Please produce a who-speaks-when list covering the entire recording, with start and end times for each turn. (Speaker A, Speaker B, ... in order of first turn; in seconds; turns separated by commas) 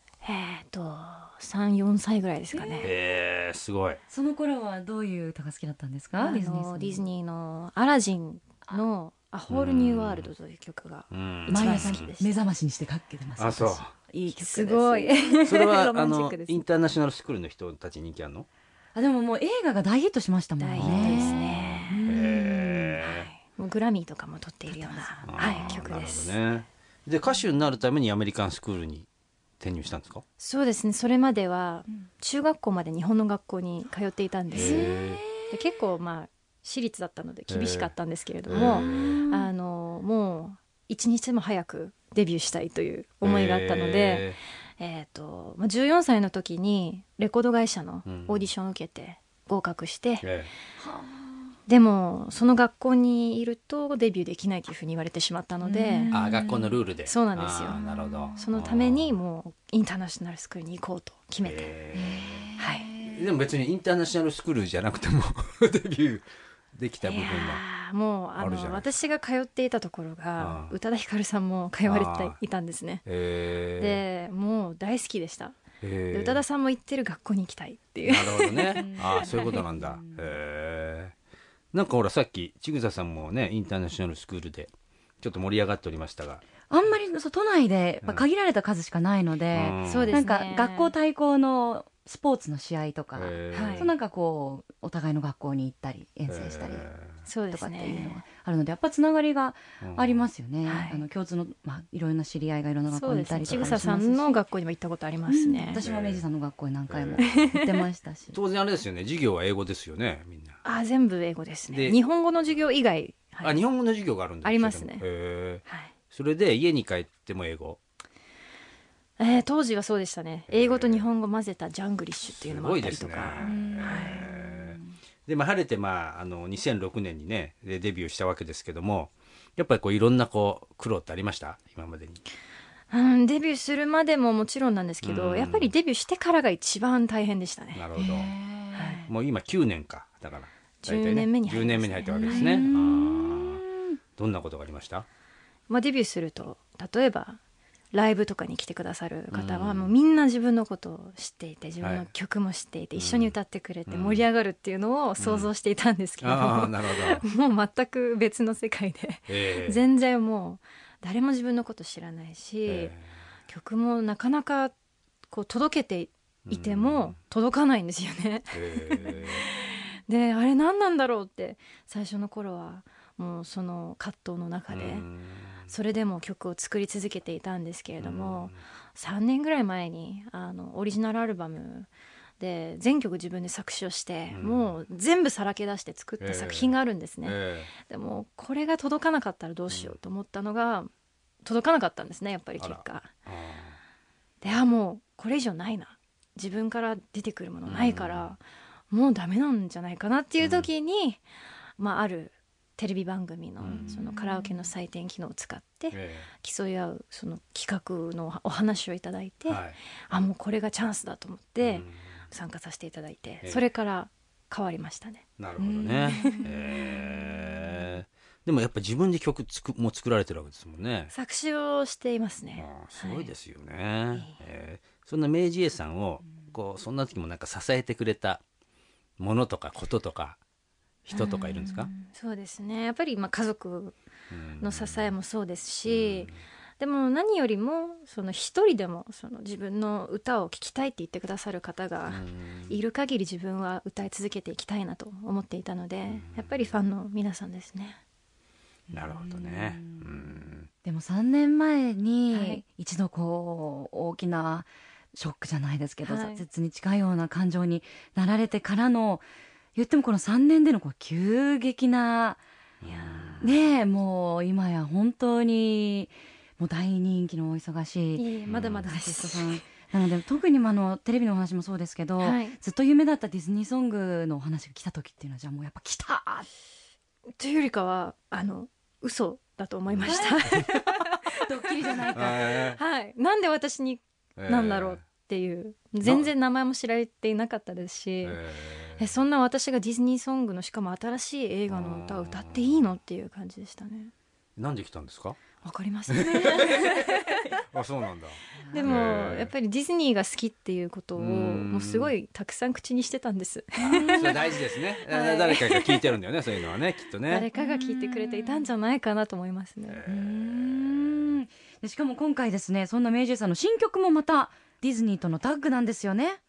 Speaker A: 0.2-2.9, Speaker B: 2.5-2.9, Speaker C: 2.8-4.0, Speaker B: 4.1-7.0, Speaker A: 6.2-12.3, Speaker C: 9.5-10.3, Speaker C: 11.1-12.1, Speaker B: 11.5-15.6, Speaker C: 13.4-13.9, Speaker A: 14.3-16.6, Speaker C: 15.4-18.5, Speaker B: 18.9-23.0, Speaker A: 20.6-22.0, Speaker C: 20.8-23.3, Speaker A: 23.0-26.4, Speaker B: 24.7-25.7, Speaker C: 25.2-29.1, Speaker C: 29.6-30.2, Speaker A: 30.4-34.9, Speaker B: 34.5-35.7, Speaker C: 34.5-35.2, Speaker A: 35.5-50.3, Speaker C: 37.5-37.9, Speaker C: 38.5-39.2, Speaker B: 38.5-39.5, Speaker C: 43.2-44.4, Speaker C: 48.0-48.5, Speaker C: 50.2-50.5, Speaker B: 50.8-51.5, Speaker A: 51.7-56.2, Speaker B: 55.6-56.8, Speaker C: 56.1-59.1, Speaker A: 57.0-57.8, Speaker B: 57.7-58.5, Speaker A: 58.4-61.7, Speaker C: 61.4-62.4, Speaker B: 61.9-63.2, Speaker A: 62.6-62.9, Speaker C: 63.1-67.6, Speaker A: 67.0-73.0, Speaker C: 68.4-68.9, Speaker C: 70.4-70.7, Speaker C: 71.8-72.4, Speaker C: 73.0-74.0, Speaker A: 73.8-75.6, Speaker C: 75.8-76.4, Speaker A: 76.1-79.6, Speaker C: 78.0-81.1, Speaker B: 78.7-80.3, Speaker C: 81.7-86.4, Speaker B: 86.7-96.9, Speaker C: 89.5-90.2, Speaker A: 89.8-90.9, Speaker C: 93.1-93.9, Speaker A: 93.5-93.9, Speaker C: 96.3-97.2, Speaker A: 97.2-98.2, Speaker B: 97.5-104.3, Speaker C: 99.8-100.3, Speaker A: 100.6-101.0, Speaker A: 102.9-105.8, Speaker B: 105.3-108.4, Speaker C: 105.8-106.2, Speaker C: 106.9-107.5, Speaker A: 107.2-107.8, Speaker C: 108.3-110.6, Speaker A: 110.6-113.6, Speaker C: 111.7-112.0, Speaker C: 113.4-117.8, Speaker A: 114.4-115.0, Speaker A: 115.6-115.9, Speaker A: 119.2-124.2, Speaker C: 120.5-121.1, Speaker C: 122.3-132.2, Speaker B: 123.4-124.9, Speaker A: 132.9-137.8, Speaker C: 135.0-135.7, Speaker C: 137.7-138.3, Speaker B: 137.9-139.1, Speaker A: 138.7-139.0, Speaker C: 139.1-143.6, Speaker A: 140.8-142.7, Speaker B: 142.1-143.9, Speaker C: 144.2-145.1, Speaker A: 145.7-147.4, Speaker A: 147.9-162.9, Speaker C: 149.3-149.9, Speaker C: 151.8-152.1, Speaker C: 152.9-153.3, Speaker C: 153.9-154.2, Speaker C: 155.2-155.5, Speaker C: 156.2-157.2, Speaker C: 159.3-159.8, Speaker C: 162.7-163.1, Speaker A: 163.5-164.7, Speaker A: 165.3-175.1, Speaker C: 166.5-167.2, Speaker C: 168.5-169.4, Speaker C: 174.7-175.7, Speaker A: 175.7-190.9, Speaker C: 178.0-178.6, Speaker C: 184.3-184.7, Speaker C: 186.2-187.7, Speaker C: 189.7-190.0, Speaker A: 191.4-193.1, Speaker C: 192.6-193.8, Speaker A: 194.4-201.2, Speaker C: 197.7-198.3, Speaker C: 200.4-200.7, Speaker A: 201.8-215.2, Speaker C: 203.6-203.9, Speaker B: 203.7-204.6, Speaker C: 205.9-206.3, Speaker C: 209.4-209.8, Speaker C: 211.6-212.2, Speaker C: 215.4-221.1, Speaker B: 215.6-217.0, Speaker A: 216.1-216.6, Speaker A: 221.1-223.3, Speaker C: 222.6-228.4, Speaker A: 224.1-224.4, Speaker C: 229.2-230.4, Speaker C: 231.1-231.9, Speaker A: 231.1-234.0, Speaker C: 234.3-235.1, Speaker A: 234.6-248.0, Speaker C: 235.8-236.4, Speaker C: 242.1-242.8, Speaker C: 246.1-246.7, Speaker B: 248.9-262.4, Speaker C: 248.9-250.7, Speaker A: 252.3-252.6, Speaker A: 256.0-256.4, Speaker C: 262.8-263.5, Speaker B: 263.4-268.3, Speaker A: 268.1-269.6, Speaker C: 268.5-268.9, Speaker B: 268.9-276.5, Speaker A: 272.2-272.6, Speaker A: 277.4-281.0, Speaker C: 279.9-280.6, Speaker B: 280.0-282.6, Speaker C: 282.1-282.8, Speaker A: 282.7-288.4, Speaker C: 284.4-285.0, Speaker C: 286.0-286.3, Speaker C: 288.2-289.1, Speaker A: 289.0-294.1, Speaker C: 291.7-292.9, Speaker C: 294.6-295.4, Speaker A: 295.6-297.3, Speaker C: 296.1-299.5, Speaker B: 298.5-299.0, Speaker A: 298.7-304.5, Speaker C: 301.1-302.1, Speaker C: 303.8-307.5, Speaker B: 303.8-304.6, Speaker B: 305.1-305.7, Speaker A: 307.3-310.0, Speaker B: 307.5-308.7, Speaker C: 309.9-311.3, Speaker B: 310.1-316.4